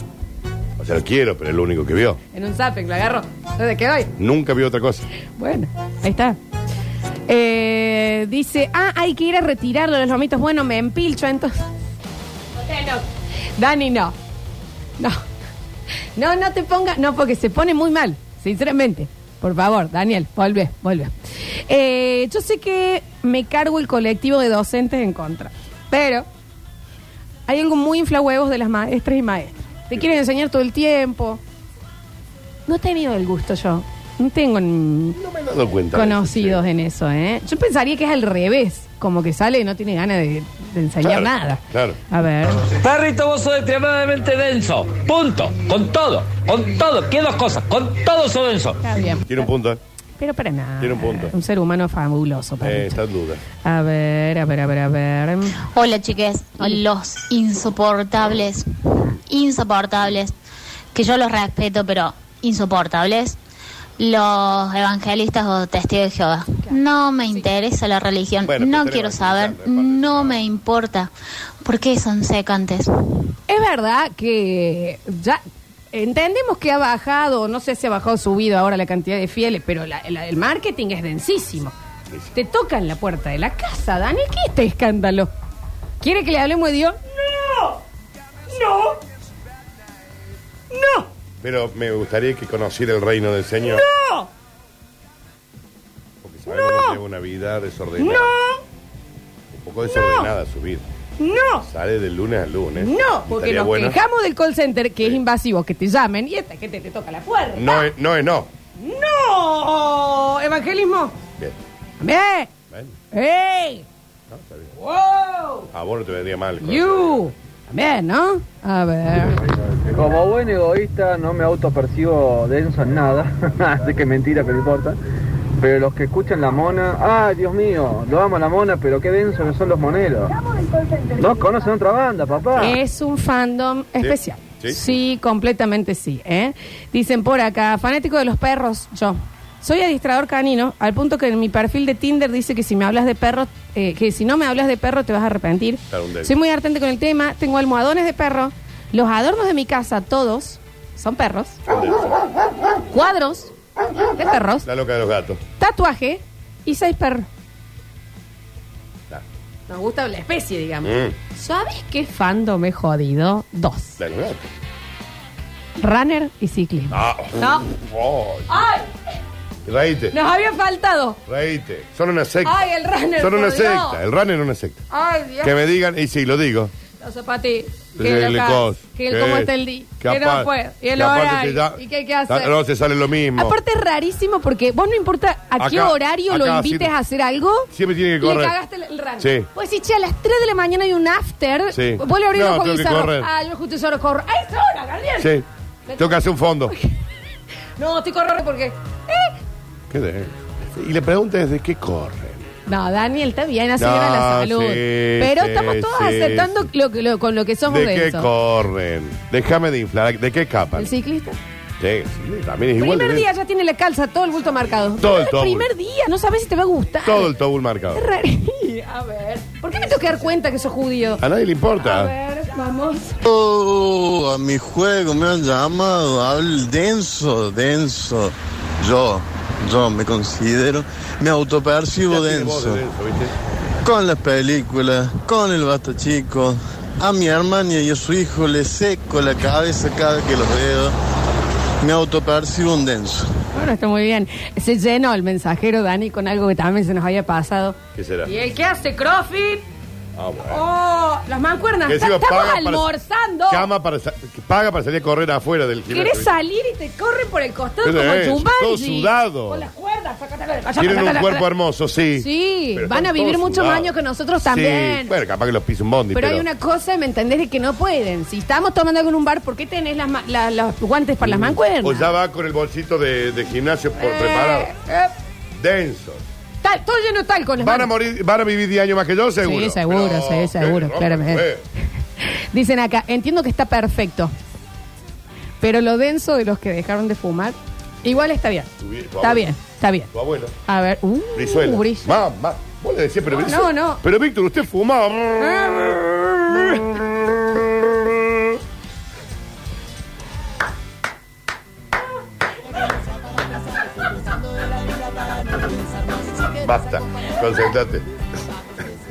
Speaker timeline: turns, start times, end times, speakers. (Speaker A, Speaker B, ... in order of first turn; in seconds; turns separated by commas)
Speaker A: 0.8-2.2, Speaker B: 2.3-4.1, Speaker A: 4.2-5.1, Speaker B: 5.4-6.4, Speaker B: 7.3-11.6, Speaker B: 12.6-13.0, Speaker B: 13.6-14.1, Speaker B: 16.2-21.1, Speaker B: 21.7-26.3, Speaker B: 27.5-31.4, Speaker B: 32.7-35.2, Speaker A: 35.2-36.6, Speaker B: 35.9-42.7, Speaker A: 41.0-42.0, Speaker C: 42.7-48.8, Speaker B: 48.8-49.5, Speaker A: 49.3-49.8, Speaker B: 50.2-53.0, Speaker A: 50.8-51.3, Speaker A: 52.6-53.4, Speaker B: 53.6-55.5, Speaker D: 55.7-58.7, Speaker D: 59.3-60.3, Speaker D: 60.9-63.4, Speaker D: 64.0-71.1, Speaker A: 68.5-70.4, Speaker D: 71.6-72.9, Speaker B: 73.5-75.4, Speaker B: 75.9-81.7, Speaker B: 82.3-85.3, Speaker B: 86.0-87.8, Speaker B: 88.5-89.0, Speaker B: 90.7-91.1, Speaker A: 91.4-93.8, Speaker B: 93.7-94.3, Speaker A: 96.2-98.3, Speaker B: 96.5-97.0, Speaker B: 98.0-98.6, Speaker A: 99.5-100.8, Speaker B: 99.8-100.3, Speaker B: 101.2-101.7, Speaker A: 101.7-104.0, Speaker B: 102.8-107.9, Speaker A: 107.5-108.5, Speaker B: 108.8-111.1, Speaker B: 112.0-112.5, Speaker B: 113.1-113.8, Speaker A: 114.3-114.7, Speaker B: 114.8-115.7, Speaker A: 115.7-117.2, Speaker B: 116.6-119.4, Speaker E: 119.9-125.0, Speaker E: 125.6-130.3, Speaker E: 131.2-132.8, Speaker B: 132.6-151.6, Speaker A: 134.0-134.8, Speaker A: 145.9-146.3, Speaker A: 151.7-152.2, Speaker B: 152.9-153.5, Speaker B: 154.2-154.7, Speaker A: 154.7-155.4, Speaker B: 155.6-157.3, Speaker B: 159.7-164.0, Speaker A: 160.8-161.1, Speaker A: 164.0-164.4, Speaker B: 165.8-167.7, Speaker A: 166.9-168.5, Speaker B: 168.5-168.9, Speaker A: 169.7-170.2, Speaker B: 170.1-171.2, Speaker A: 171.3-172.6, Speaker B: 172.4-174.0, Speaker A: 173.2-174.8, Speaker B: 174.9-175.5, Speaker A: 175.4-176.7, Speaker B: 177.0-182.5, Speaker A: 178.0-183.6, Speaker B: 183.4-187.7, Speaker A: 185.6-186.9, Speaker A: 187.7-188.6, Speaker B: 188.2-195.3, Speaker A: 189.2-189.5, Speaker A: 191.7-193.3, Speaker A: 195.2-195.4, Speaker B: 195.9-196.9, Speaker A: 196.0-196.7, Speaker B: 197.8-199.3, Speaker A: 199.9-202.5, Speaker B: 202.7-208.3, Speaker A: 203.8-206.7, Speaker A: 207.7-210.9, Speaker B: 210.8-211.3, Speaker A: 211.8-213.3, Speaker B: 212.8-217.3, Speaker A: 215.0-215.7, Speaker A: 217.1-218.1, Speaker B: 217.9-221.2, Speaker A: 221.2-222.1, Speaker B: 221.8-223.2, Speaker F: 223.2-232.8, Speaker A: 232.1-233.3, Speaker F: 233.8-240.9, Speaker F: 241.8-243.3, Speaker B: 243.5-249.7, Speaker A: 248.0-248.3, Speaker A: 250.2-250.6, Speaker B: 250.5-253.7, Speaker A: 251.9-252.9, Speaker A: 253.5-256.3, Speaker B: 255.9-261.5, Speaker A: 257.8-259.7, Speaker A: 260.8-263.9, Speaker B: 262.2-265.1, Speaker A: 264.4-266.4, Speaker B: 266.1-272.1, Speaker A: 271.2-274.7, Speaker B: 274.0-275.1, Speaker A: 275.6-276.2, Speaker B: 276.6-277.9, Speaker A: 277.6-281.6, Speaker B: 279.4-281.4, Speaker B: 282.5-284.3, Speaker B: 285.6-288.7, Speaker A: 288.8-289.5, Speaker B: 289.2-290.1, Speaker A: 290.1-290.5, Speaker B: 290.7-292.1, Speaker A: 291.4-297.5, Speaker B: 293.4-294.0, Speaker B: 295.4-296.8, Speaker A: 306.6-308.1